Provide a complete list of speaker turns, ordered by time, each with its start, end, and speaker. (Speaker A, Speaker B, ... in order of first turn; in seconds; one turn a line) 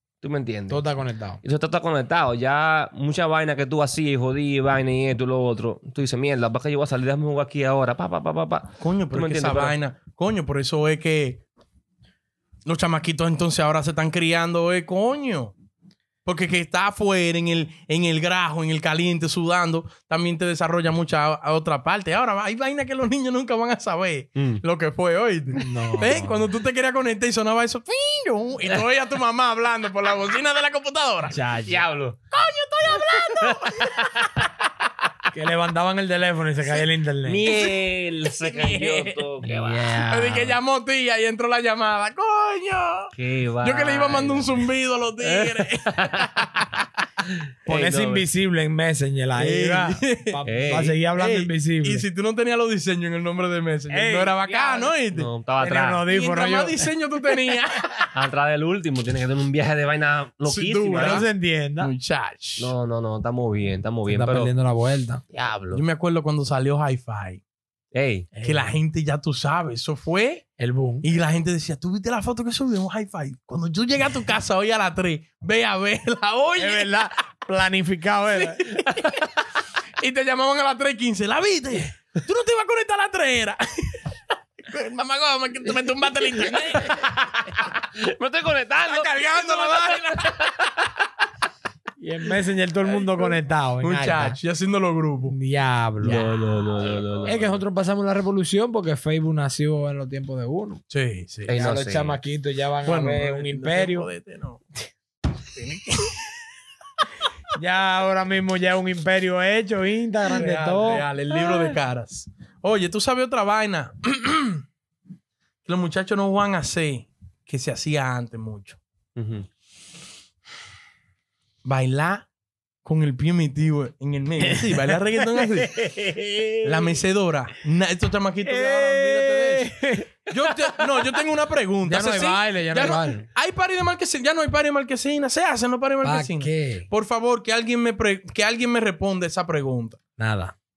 Speaker A: 0.2-0.8
Speaker B: 0.7-1.4
Speaker A: 1.6-9.7
Speaker C: 8.8-11.4
Speaker C: 12.7-15.5
Speaker C: 16.2-31.4
Speaker B: 25.6-26.4
Speaker B: 31.3-31.8
Speaker A: 31.7-32.1
Speaker C: 32.3-34.1
Speaker B: 35.3-37.5
Speaker A: 37.3-39.5
Speaker C: 37.4-39.2
Speaker B: 39.4-40.6
Speaker C: 40.0-46.7
Speaker A: 43.1-44.6
Speaker A: 45.2-46.2
Speaker B: 47.6-52.0
Speaker A: 47.7-48.2
Speaker C: 49.3-50.4
Speaker A: 50.5-51.0
Speaker C: 51.0-55.3
Speaker B: 53.9-54.9
Speaker A: 55.1-56.0
Speaker B: 55.6-57.5
Speaker C: 56.0-58.1
Speaker A: 58.1-61.2
Speaker C: 60.5-61.3
Speaker B: 60.9-61.9
Speaker C: 61.8-62.7
Speaker A: 62.6-64.5
Speaker B: 64.1-65.2
Speaker A: 65.3-65.8
Speaker C: 65.7-67.4
Speaker B: 68.3-68.7
Speaker C: 68.4-70.5
Speaker B: 70.6-71.1
Speaker C: 71.0-77.0
Speaker B: 76.6-78.8
Speaker C: 78.3-79.2
Speaker C: 80.0-84.0
Speaker C: 84.7-87.1
Speaker A: 88.0-90.5
Speaker C: 88.8-90.5
Speaker B: 92.0-94.4
Speaker C: 92.8-95.3
Speaker B: 95.3-96.3
Speaker C: 96.0-96.6
Speaker A: 96.1-97.6
Speaker B: 97.1-100.8
Speaker C: 100.9-101.5
Speaker B: 101.5-104.1
Speaker A: 101.5-102.2
Speaker C: 102.8-104.6
Speaker C: 105.5-106.1
Speaker B: 107.5-111.8
Speaker C: 110.2-114.6
Speaker C: 115.6-118.8
Speaker A: 119.2-119.5
Speaker C: 121.6-122.2
Speaker C: 122.8-125.8
Speaker B: 124.4-127.0
Speaker C: 126.6-140.0
Speaker B: 128.4-130.8
Speaker B: 131.8-133.3
Speaker B: 136.0-136.9
Speaker B: 140.2-140.5